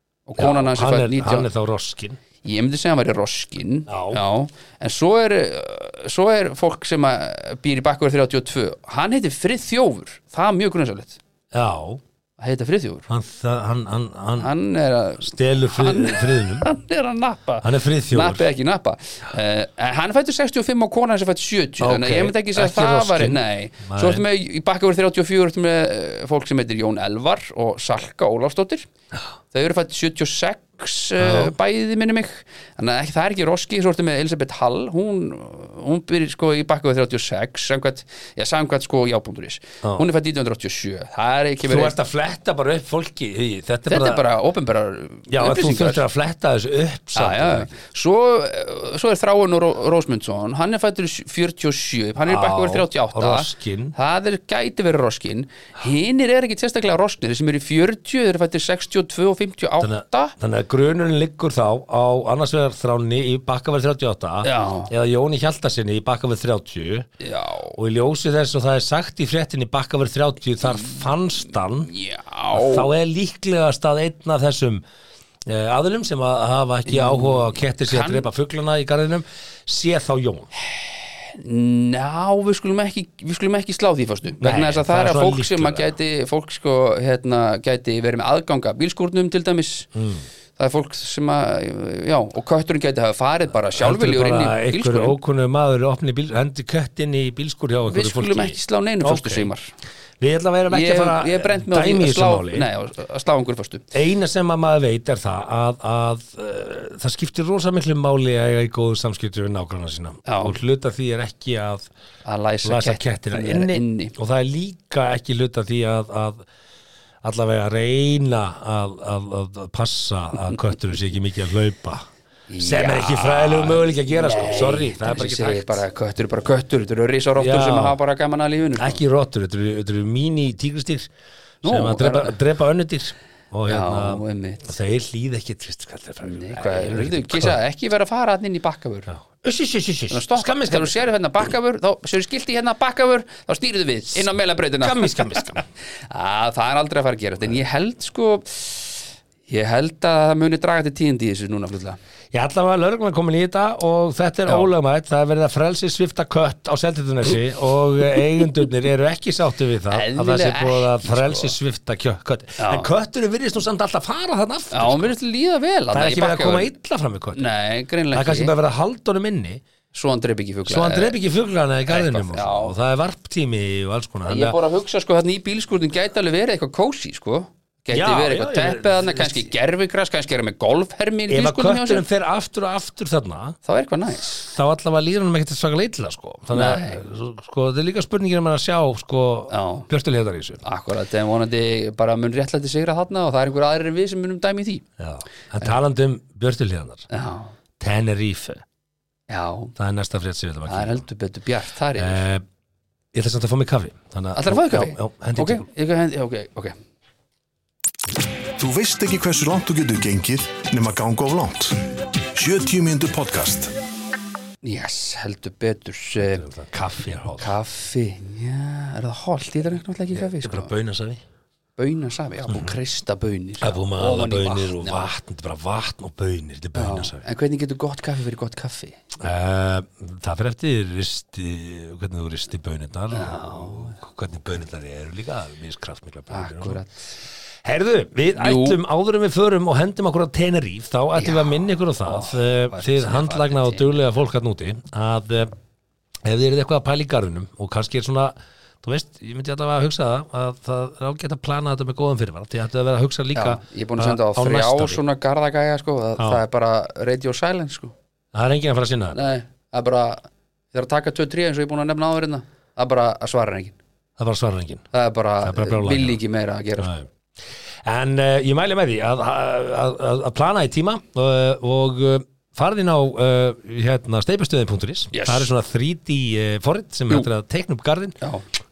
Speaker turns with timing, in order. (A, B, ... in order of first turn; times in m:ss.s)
0:00.3-0:01.5 A
0:00.4-0:02.2 B
0:02.4-0:11.2 A
0:03.9-0:04.2 B
0:11.5-0:12.0 B
0:12.4-0:13.1 A
0:13.1-0:14.5 B
0:14.4-0:28.9 A
0:15.2-0:16.7 B
0:17.6-0:18.4 B
0:21.8-0:24.2 B
0:29.5-0:42.0 A
0:31.2-0:31.5 B
0:41.6-0:44.2 B
0:43.9-0:46.0 A
0:45.3-0:47.7 B
0:47.2-1:00.4 A
0:52.2-0:54.0 B
0:59.8-1:07.1 B
1:04.4-1:04.9 A
1:07.2-1:07.8 A
1:07.7-1:11.9 B
1:10.8-1:11.0 A
1:11.8-1:12.9 A
1:12.5-1:14.8 B
1:15.4-1:20.5 B
1:16.8-1:18.3 A
1:20.6-1:29.9 A
1:24.4-1:25.9 B
1:29.9-1:30.2 B
1:30.6-1:35.2 A
1:33.8-1:39.5 B
1:37.9-1:39.7 A
1:40.2-1:42.7 B
1:40.7-1:43.8 A
1:43.9-1:51.9 B
1:50.2-1:50.6 A
1:52.2-1:54.1 A
1:52.6-1:56.4 B
1:57.2-2:02.1 B
2:02.5-2:09.0 A
2:02.6-2:05.8 B
2:07.4-2:08.0 B
2:08.8-2:11.1 B
2:11.6-2:12.4 A
2:11.6-2:17.6 B
2:13.7-2:14.7 A
2:16.2-2:19.1 A
2:19.1-2:21.1 B
2:20.1-2:32.0 A
2:24.1-2:25.6 B
2:32.3-2:45.1 B
2:39.9-2:41.6 A
2:42.6-2:42.9 A
2:44.7-2:46.7 A
2:45.9-2:47.4 B
2:47.3-2:48.5 A
2:48.1-2:49.6 B
2:49.9-2:51.2 A
2:50.7-2:54.6 B
2:51.9-2:52.7 A
2:54.2-3:02.0 A
2:57.9-2:59.5 B
3:01.3-3:03.6 B
3:03.6-3:04.4 A
3:04.4-3:10.6 B
3:06.5-3:07.0 A
3:09.5-3:09.9 A
3:10.6-3:14.8 A
3:15.0-3:17.1 B
3:17.1-3:17.5 A
3:17.8-3:18.6 B
3:19.3-3:19.7 A
3:19.8-3:21.0 B
3:20.7-3:22.2 A
3:22.0-3:22.4 B
3:23.1-3:25.6 B
3:24.3-3:26.7 A
3:28.6-3:33.7 C
3:34.6-3:36.5 A
3:36.2-3:37.5 B
3:37.4-3:40.7 A
3:40.1-3:41.2 B
3:41.8-3:45.1 A
3:42.5-3:42.7 B
3:43.6-3:47.2 B
3:46.7-3:49.0 A
3:49.2-3:56.8 B
3:53.1-3:54.0 A
3:56.3-3:57.1 A
3:57.6-4:05.5 B
3:58.3-3:58.8 A
4:01.2-4:03.9 A
4:06.2-4:15.0 B
4:13.3-4:17.9 A
4:18.3-4:19.2 B
4:19.1-4:23.8 A
4:24.2-4:24.9 B
4:24.9-4:26.9 A
4:25.4-4:26.2 B
4:26.8-4:27.1 B
4:27.8-4:38.2 B
4:35.1-4:35.5 A